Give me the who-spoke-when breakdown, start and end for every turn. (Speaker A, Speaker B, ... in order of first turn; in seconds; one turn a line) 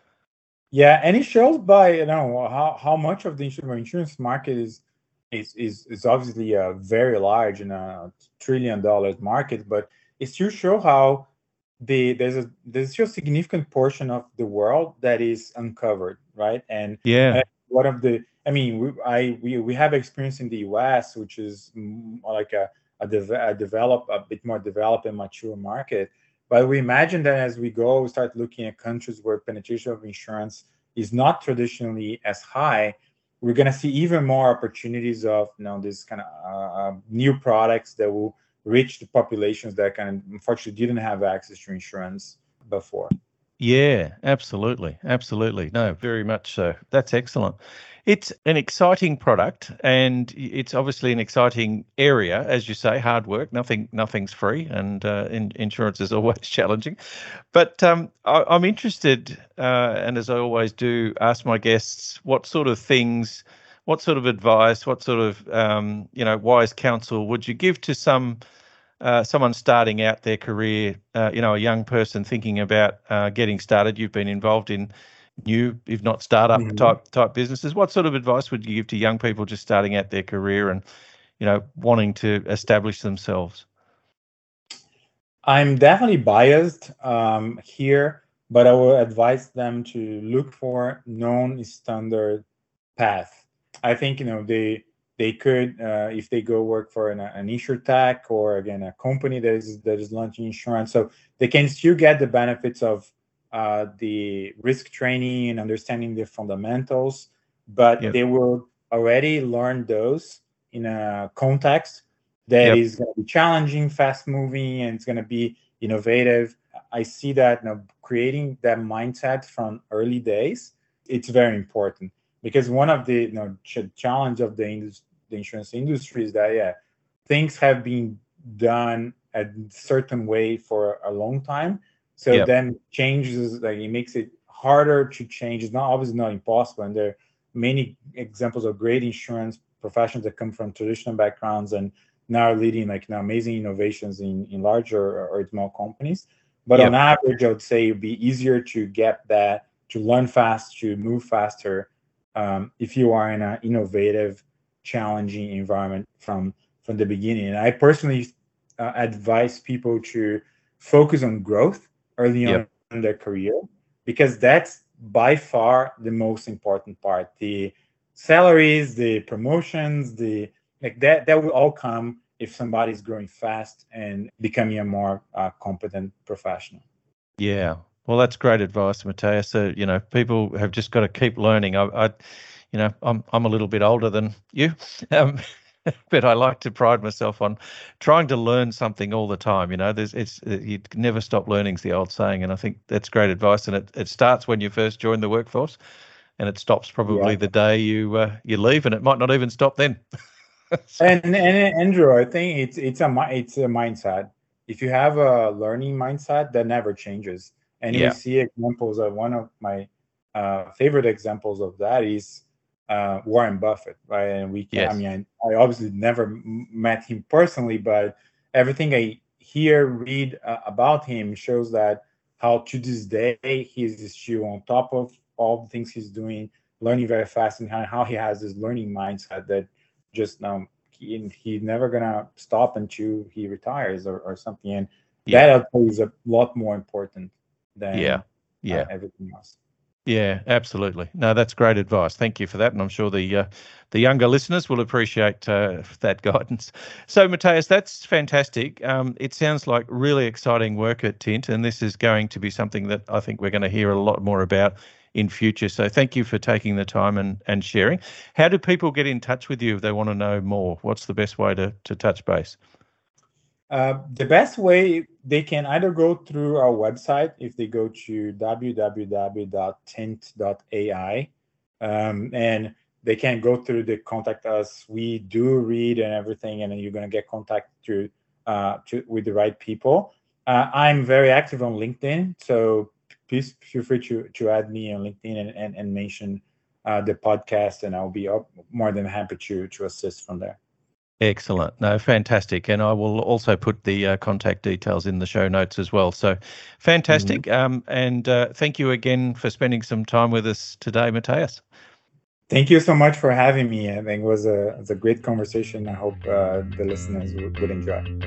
Speaker A: 0.7-11.3
Speaker A: 11.8-43.1
Speaker B: 17.1-17.4
Speaker B: 43.6-57.0
Speaker B: 57.5-68.4
Speaker B: 69.0-74.9
Speaker B: 75.5-80.8
Speaker A: 76.5-76.9
Speaker B: 81.4-83.7
Speaker A: 85.5-92.4
Speaker A: 93.0-126.8
Speaker A: 127.3-176.8
Speaker B: 177.4-182.1
Speaker B: 182.7-195.8
Speaker B: 196.4-200.0
Speaker A: 197.1-197.4
Speaker B: 200.7-201.0
Speaker A: 201.0-239.6
Speaker B: 207.9-208.2
Speaker B: 214.7-215.0
Speaker B: 237.9-238.9
Speaker B: 240.1-262.6
Speaker A: 263.7-271.3
Speaker A: 271.8-290.6
Speaker B: 291.2-301.6
Speaker A: 297.1-297.4
Speaker A: 302.5-308.1